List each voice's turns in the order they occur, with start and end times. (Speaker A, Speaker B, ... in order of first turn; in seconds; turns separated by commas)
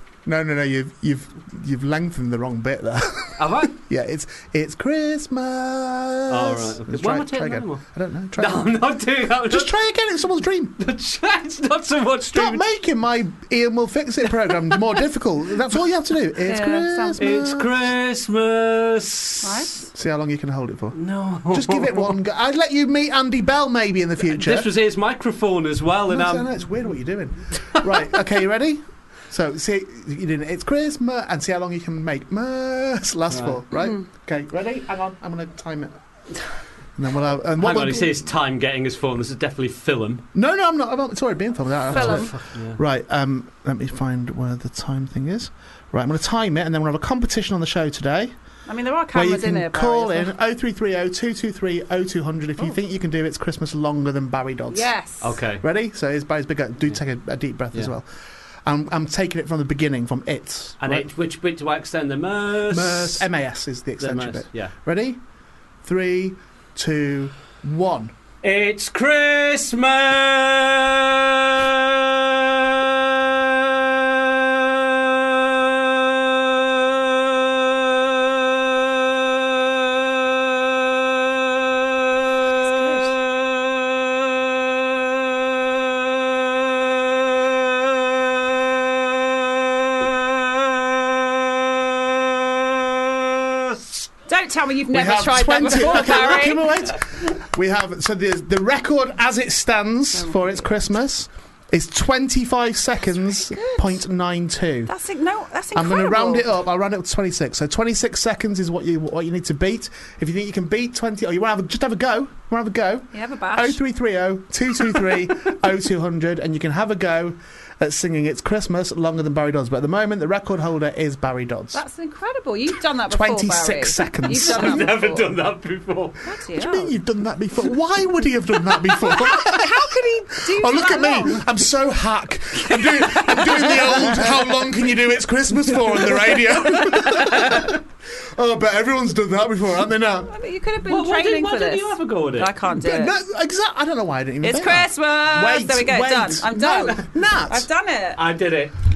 Speaker A: 0.2-8.8, Speaker B: 3.4-3.8, Speaker B: 6.3-7.8, Speaker B: 8.4-9.7, Speaker A: 9.5-10.8, Speaker B: 10.8-12.6, Speaker A: 12.2-17.7, Speaker C: 16.4-17.2, Speaker B: 17.2-19.7, Speaker C: 19.4-19.9, Speaker A: 19.9-24.7, Speaker B: 20.9-22.1, Speaker B: 24.2-26.6, Speaker A: 26.1-36.0, Speaker B: 27.8-28.1, Speaker B: 33.3-33.6, Speaker A: 37.0-38.3, Speaker B: 37.6-40.2, Speaker A: 40.3-48.3, Speaker B: 41.9-42.8, Speaker C: 48.7-50.3, Speaker A: 49.1-54.9, Speaker C: 54.7-55.3, Speaker B: 55.2-55.6, Speaker A: 55.5-58.1, Speaker A: 58.6-61.1, Speaker B: 60.8-63.2, Speaker A: 62.7-65.2, Speaker B: 64.0-64.7, Speaker A: 65.8-68.1, Speaker B: 68.4-75.2, Speaker C: 82.6-83.1, Speaker B: 91.0-91.3, Speaker B: 91.8-94.0, Speaker C: 94.3-96.7, Speaker A: 94.9-104.9, Speaker C: 100.1-100.7, Speaker C: 103.2-104.0, Speaker C: 104.9-106.4, Speaker A: 105.7-121.8, Speaker C: 113.1-113.8, Speaker C: 121.7-125.0, Speaker A: 123.1-125.3, Speaker B: 124.4-126.2, Speaker C: 126.2-126.9, Speaker A: 126.5-140.3, Speaker C: 128.9-131.4, Speaker C: 132.6-134.2, Speaker C: 136.9-137.2, Speaker C: 140.2-143.1, Speaker B: 140.8-142.5, Speaker A: 142.7-147.7, Speaker C: 144.4-148.2, Speaker B: 148.2-148.7